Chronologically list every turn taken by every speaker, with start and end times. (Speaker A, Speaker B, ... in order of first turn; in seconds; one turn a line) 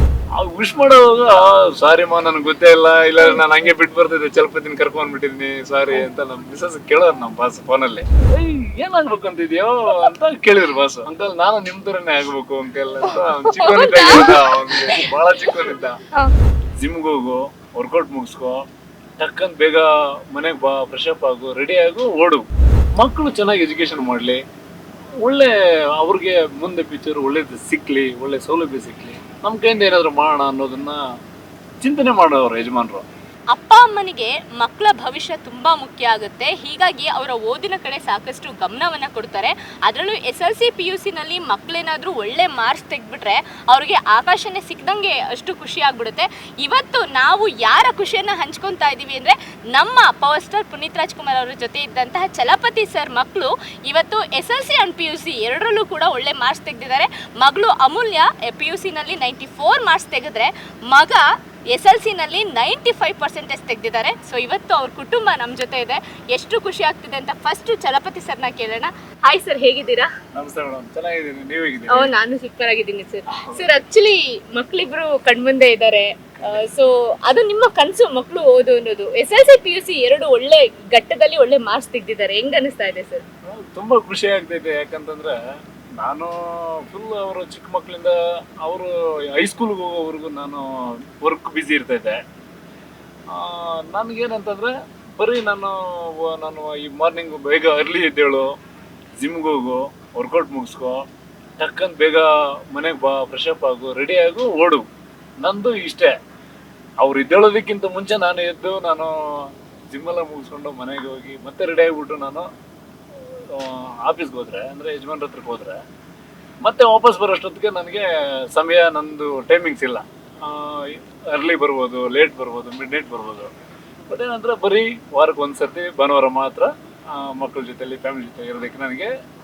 Speaker A: 0.4-16.0
Speaker B: 13.0-15.1
Speaker A: 16.8-18.6
Speaker A: 19.2-24.4
Speaker A: 25.2-31.0
Speaker A: 31.8-33.0
Speaker B: 33.5-70.1
Speaker A: 70.3-72.1
Speaker B: 71.9-83.2
Speaker A: 83.4-85.4
Speaker A: 86.0-92.2
Speaker A: 93.3-98.5
Speaker A: 99.2-101.0
Speaker A: 101.6-104.9
Speaker A: 105.4-106.1
Speaker A: 107.0-112.5
Speaker A: 113.5-115.8
Speaker A: 116.6-123.5
Speaker A: 124.1-129.1